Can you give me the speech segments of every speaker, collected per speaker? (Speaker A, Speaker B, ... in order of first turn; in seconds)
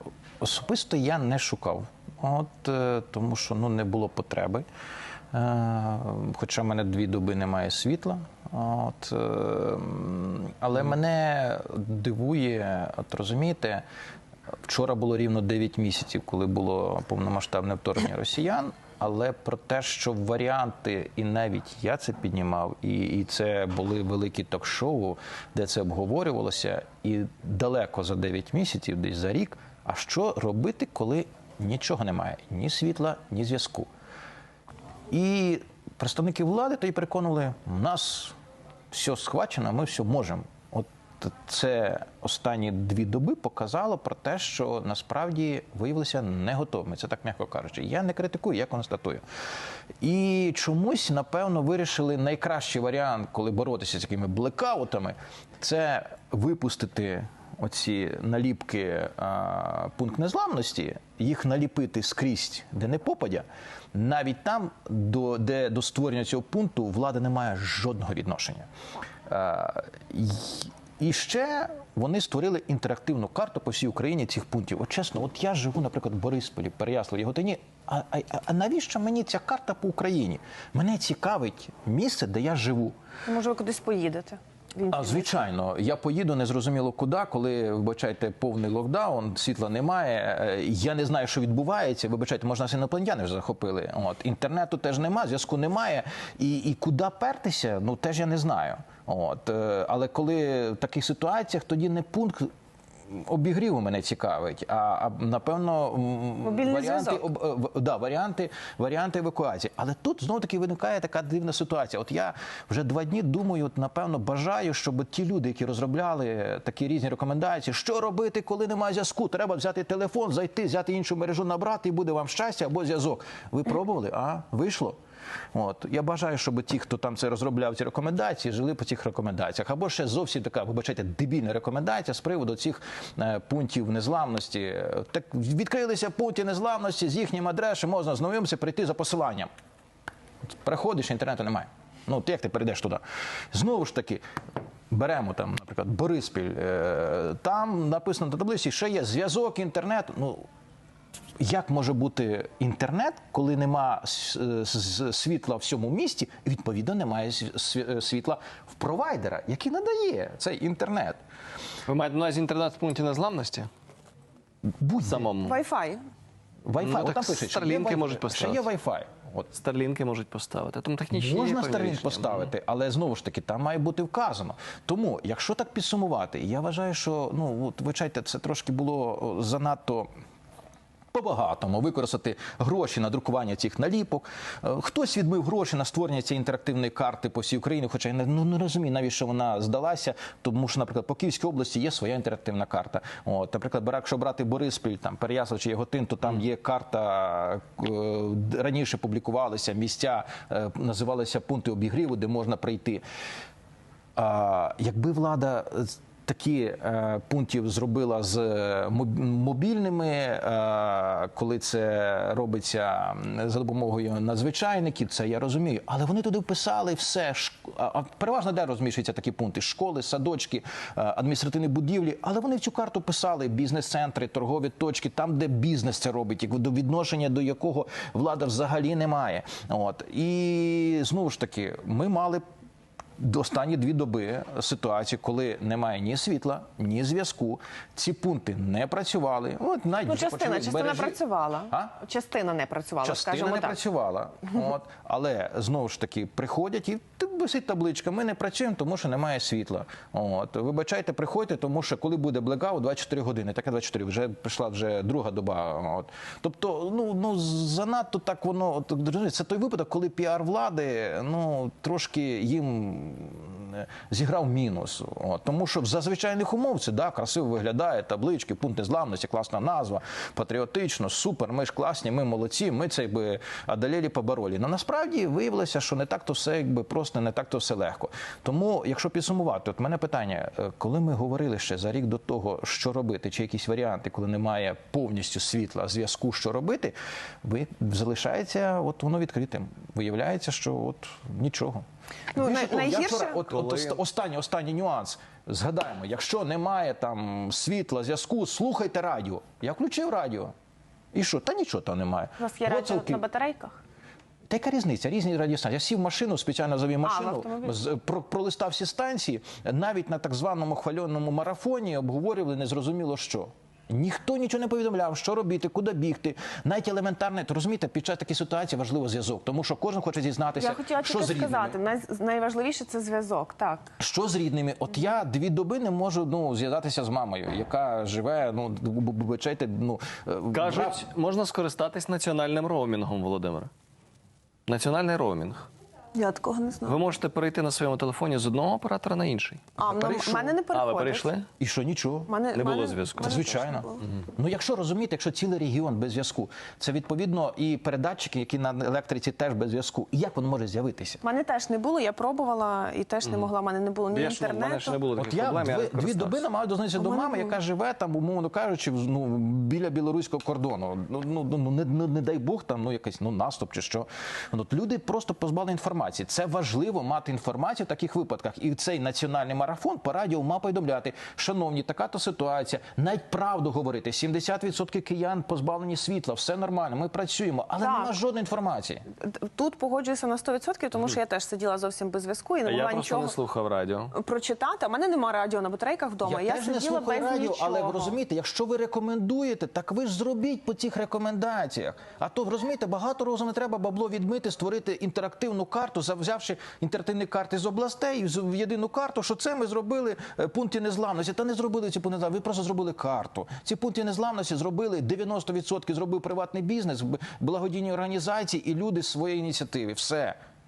Speaker A: 0.4-4.6, 5.3-13.8, 14.7-33.9, 35.1-38.4, 38.9-49.2, 50.0-68.7, 69.3-82.9, 84.9-102.5, 103.1-125.0, 125.5-139.5, 140.6-144.2, 144.9-150.4, 151.4-161.2, 164.8-165.3, 166.7-169.5, 171.1-180.1, 181.1-203.0, 204.2-232.4, 233.2-241.2, 241.7-241.9, 243.0-300.5, 301.1-303.2, 304.5-321.8, 324.0-331.0, 341.6-342.3, 343.2-351.2, 355.1-379.0, 386.2-410.4
Speaker B: 83.3-85.4, 106.4-107.3, 165.4-166.0, 240.1-243.8, 292.3-293.5, 302.4-303.8, 307.0-307.8, 320.6-323.9, 336.1-337.0, 339.8-341.3, 342.3-344.0, 351.2-355.0, 357.0-357.6, 377.8-378.1, 379.2-383.4, 384.1-388.2
Speaker C: 161.9-163.7, 165.0-165.6, 166.8-168.7, 169.5-172.5, 293.5-294.0, 330.5-333.7, 334.7-335.7, 336.8-341.5, 342.5-343.4, 353.2-353.5, 354.1-356.4, 382.6-384.1